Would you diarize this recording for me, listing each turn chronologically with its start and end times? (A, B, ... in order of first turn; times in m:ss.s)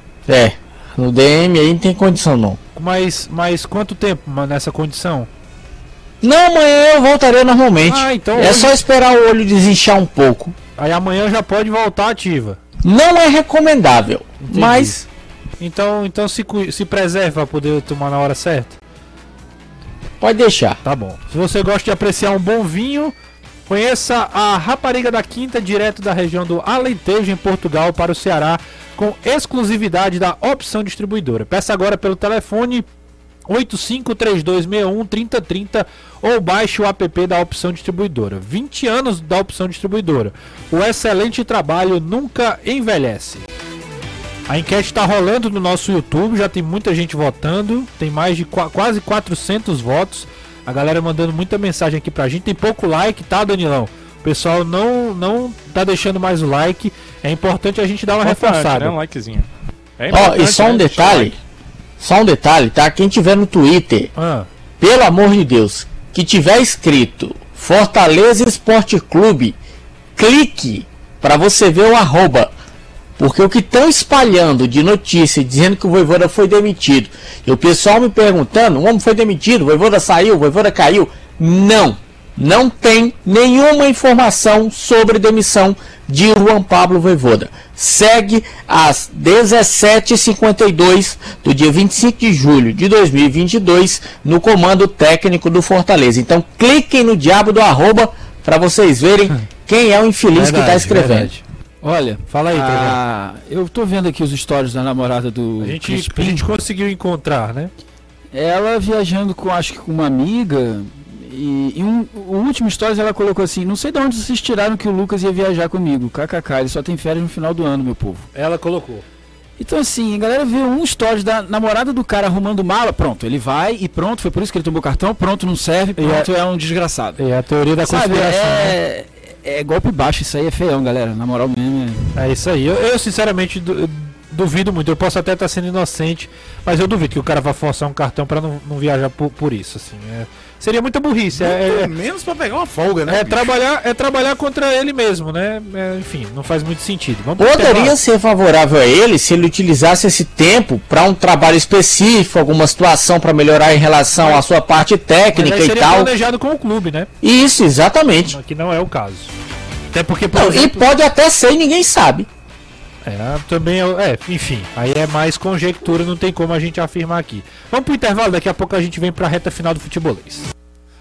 0:00.3-0:02.6 A
0:02.7-0:05.3 B
0:06.2-0:10.5 A
0:07.8-0:08.7 B
0:10.8-0:12.6 B
0:12.8-0:15.0 A
0:14.4-0:15.0 B
0:15.6-0:18.8 B
0:20.2-0:20.8 A
0:20.8-0:23.1 B
0:23.7-0:32.9 B
0:33.5-0:43.4 B
0:44.5-0:58.9 B
0:58.2-1:01.3 C
1:00.1-1:01.3 A
1:02.0-1:04.1 A
1:04.2-1:04.5 B
1:04.8-1:09.6 A
1:10.2-1:12.5 A
1:13.2-1:41.3 A
1:40.3-1:41.4 B
1:41.8-1:46.5 D
1:42.3-1:43.0 B
1:45.6-1:47.7 B
1:48.3-1:58.3 D
1:58.3-1:59.0 B
1:59.6-2:07.2 D
2:06.0-2:06.3 B
2:07.2-2:08.8 B
2:07.8-2:12.2 D
2:12.2-2:21.9 B
2:21.3-2:23.5 E
2:23.1-2:28.0 B
2:27.4-2:36.1 A
2:35.3-2:37.1 B
2:37.2-2:38.4 A
2:38.3-2:39.3 B
2:39.9-2:40.8 B
2:40.3-2:42.3 A
2:43.0-2:50.5 B